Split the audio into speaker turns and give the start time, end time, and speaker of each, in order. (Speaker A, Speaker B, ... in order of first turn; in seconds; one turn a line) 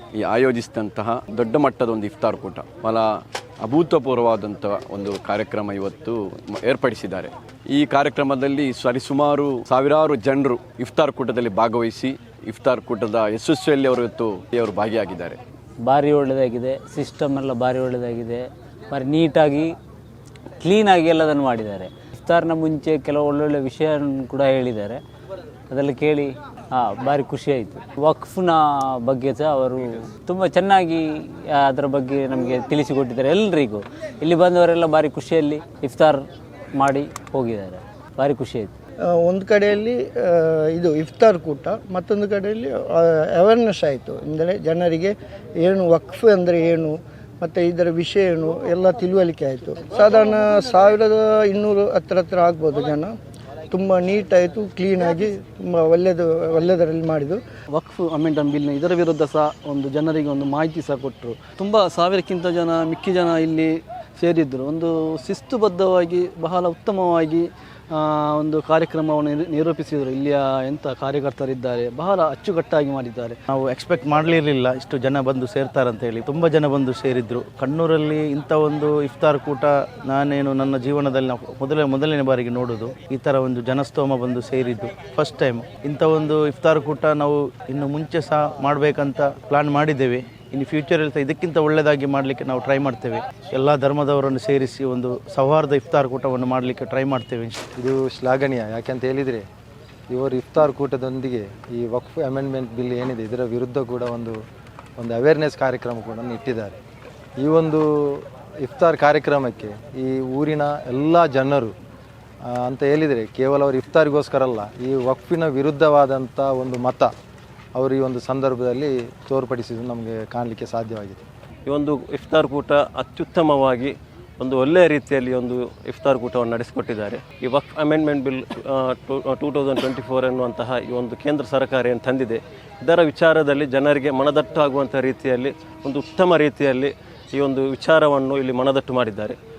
Speaker A: 0.2-3.0
Speaker A: 3.6-15.4
Speaker B: 15.8-19.7
Speaker B: 20.6-25.0
Speaker B: 25.7-36.2
Speaker B: 36.7-38.7
Speaker C: 39.1-53.1
Speaker C: 53.7-57.4
Speaker D: 57.7-73.4
Speaker E: 73.5-97.6
Speaker F: 97.8-99.4
Speaker F: 100.1-104.3
Speaker F: 105.0-106.8
Speaker F: 107.4-111.7
Speaker F: 112.6-117.1
Speaker F: 117.8-121.2
Speaker G: 121.7-123.9
Speaker G: 124.4-128.3
Speaker G: 129.1-132.3
Speaker G: 132.9-136.9
Speaker G: 137.4-139.3